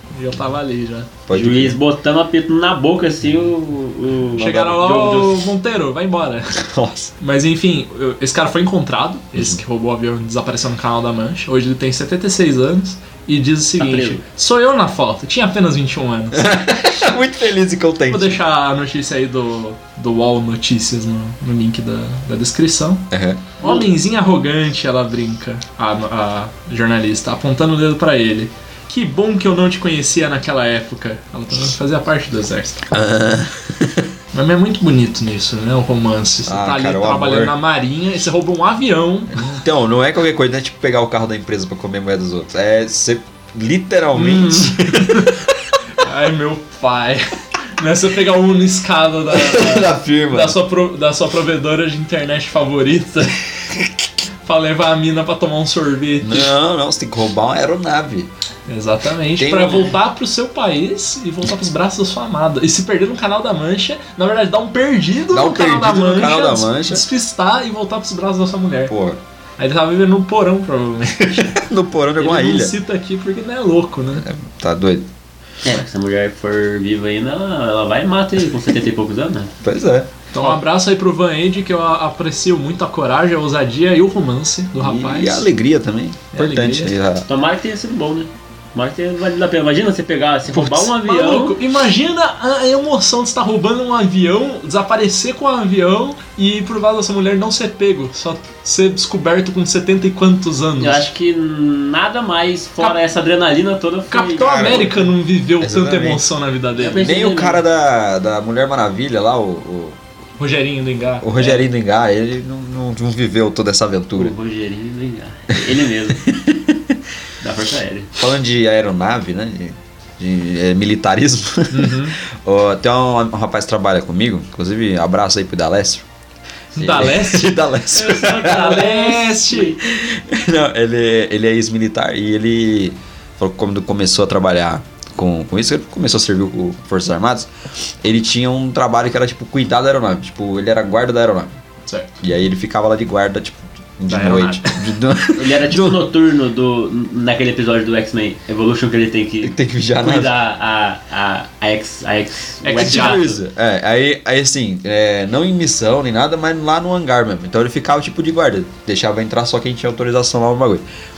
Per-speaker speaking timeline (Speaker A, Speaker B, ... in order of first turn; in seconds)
Speaker A: 0.1-1.1, 4.4-6.6, 7.2-16.4, 18.1-23.1, 23.6-32.9, 34.3-39.4, 44.1-45.4, 46.0-53.4, 54.4-56.5, 58.7-68.9, 69.6-71.6, 72.2-74.3, 80.3-85.5, 86.3-86.9, 90.5-101.0, 104.1-107.1, 110.4-111.3, 121.7-122.2, 126.8-127.6, 128.3-129.8, 144.1-144.9, 152.6-153.3
Speaker B: 1.3-1.8, 4.4-4.8, 6.6-7.1, 16.3-18.4, 23.1-23.5, 32.9-34.1, 36.5-37.5, 39.3-45.3, 49.3-50.6, 56.2-58.3, 59.4-60.0, 65.3-67.0, 68.9-69.2, 71.3-72.8, 74.2-75.1, 79.6-80.2, 84.8-87.3, 104.4-105.1, 105.6-106.2, 107.0-110.0, 111.2-114.3, 116.1-117.0, 118.2-126.1, 126.8-128.8, 129.8-137.5, 138.0-141.5, 142.2-146.1, 149.4-150.3, 152.8-160.8
Speaker C: 1.3-5.4, 13.8-14.2, 23.6-23.9, 75.6-79.5, 87.3-91.6, 100.8-104.9, 106.8-107.6, 114.2-116.3, 117.4-118.1, 127.9-129.8, 145.3-153.4